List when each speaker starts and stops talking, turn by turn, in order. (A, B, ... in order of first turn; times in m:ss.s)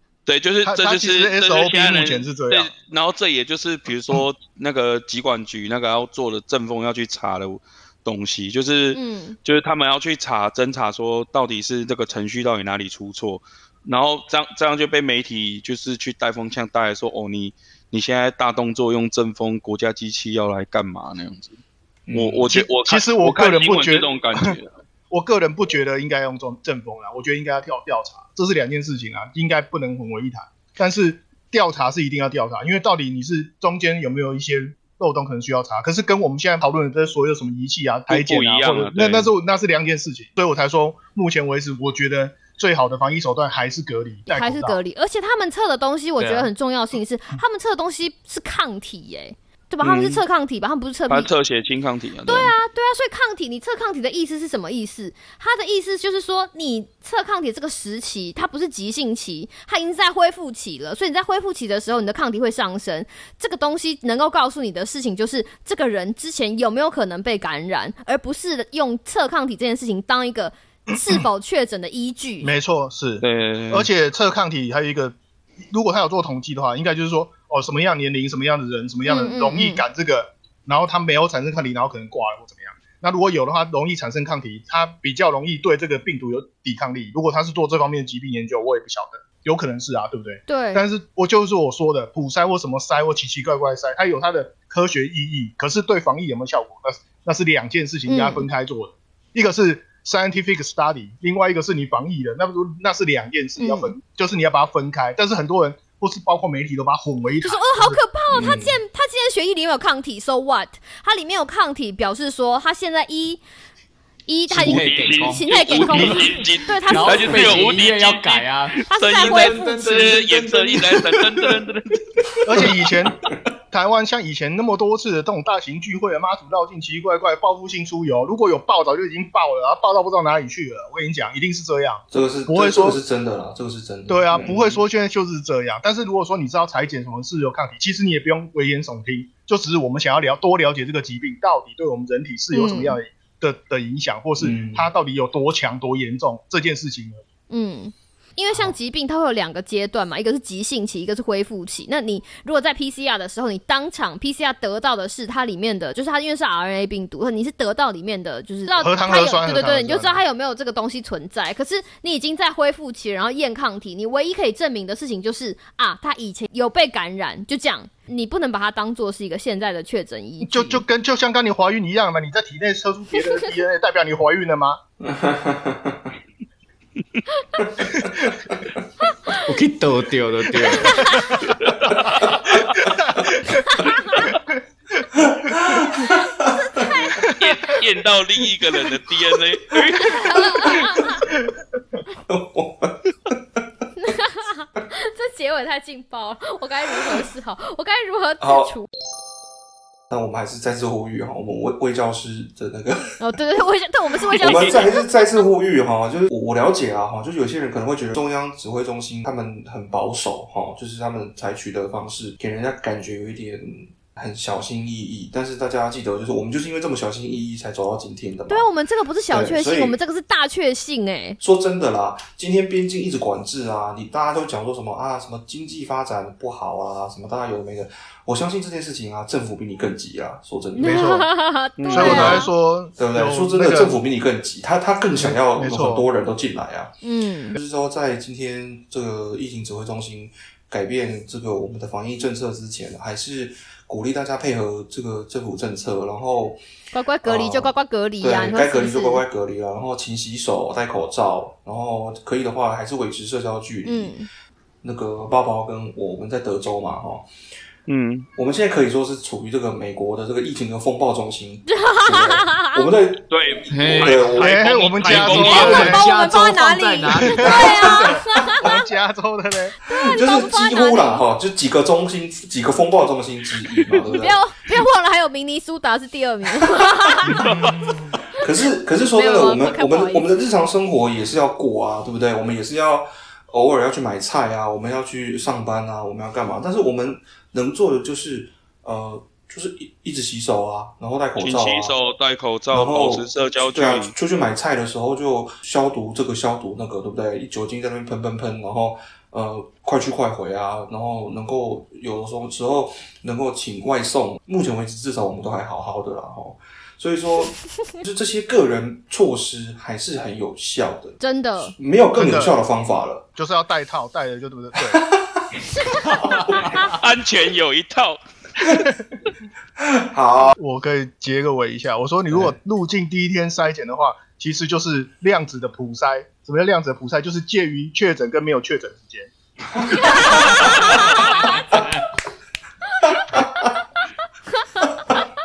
0:00.2-0:21.6 A
0:00.6-0:02.7 B
0:08.9-0:09.4 C
0:22.1-0:22.5 D
0:22.1-0:24.7 A
0:22.5-0:24.6 B
0:25.1-0:44.8 B
0:38.1-0:39.3 A
0:44.3-0:51.3 C
0:49.8-0:50.2 A
0:51.1-0:52.5 A
0:52.3-1:12.5 C
1:12.4-1:15.2 B
1:13.2-1:13.9 A
1:15.7-1:48.0 B
1:19.0-1:19.8 C
1:30.5-1:30.8 C
1:38.1-1:38.5 C
1:43.6-1:43.9 C
1:47.4-1:53.4 C
1:48.3-1:48.8 D
1:54.3-1:57.8 C
1:54.5-2:01.5 E
1:54.6-2:02.0 A
1:58.9-2:00.2 C
2:02.4-2:13.0 B
2:12.1-2:14.8 D
2:14.1-2:27.2 B
2:22.5-2:23.0 C
2:24.4-2:24.9 D
2:27.5-2:50.8 C
2:38.8-2:40.2 B
2:50.4-2:54.8 B
2:55.0-2:56.1 D
2:57.9-2:58.4 B
2:59.4-3:01.2 E
3:00.8-3:01.4 C
3:01.6-3:02.6 A
3:02.7-3:04.4 B
3:05.1-3:07.1 D
3:06.8-3:07.1 C
3:07.2-3:10.8 A
3:10.0-3:11.0 D
3:10.1-3:11.2 C
3:12.2-3:13.6 D
3:14.0-3:18.9 C
3:18.4-3:18.7 D
3:20.1-3:23.2 D
3:23.2-3:25.2 C
3:24.4-3:38.7 D
3:38.5-3:41.4 C
3:39.3-3:39.9 D
3:41.4-3:51.1 D
3:50.7-3:52.5 C
3:50.8-3:51.3 B
3:51.8-3:52.4 A
3:51.9-3:53.9 B
3:52.0-3:52.4 D
3:53.0-3:56.9 D
3:55.1-3:56.0 B
3:57.0-3:57.6 C
3:57.5-4:06.6 D
4:06.9-4:09.2 C
4:07.2-4:14.1 D
4:13.8-4:14.3 C
4:14.8-4:17.3 D
4:17.9-4:18.3 A
4:18.4-4:24.9 D
4:21.7-4:22.9 C
4:23.3-4:25.9 A
4:23.7-4:24.3 E
4:24.4-4:26.1 B
4:25.1-4:27.7 E
4:25.3-4:28.7 C
4:27.4-4:29.8 B
4:27.4-4:28.8 D
4:29.9-4:31.2 C
4:29.9-4:34.4 D
4:34.1-4:37.4 C
4:37.2-4:38.2 B
4:37.4-4:37.8 A
4:38.4-4:51.9 D
4:39.1-4:40.2 C
4:51.4-4:54.1 A
4:52.7-5:11.2 D
5:11.2-5:11.7 C
5:11.7-5:13.2 D
5:12.1-5:12.6 B
5:13.3-5:15.0 B
5:14.9-5:15.6 D
5:16.1-5:16.9 E
5:16.1-5:16.5 D
5:16.8-5:18.2 A
5:19.8-5:20.6 D
5:20.6-5:29.3 B
5:29.9-5:30.6 D
5:33.1-5:33.4 D
5:34.6-5:34.9 C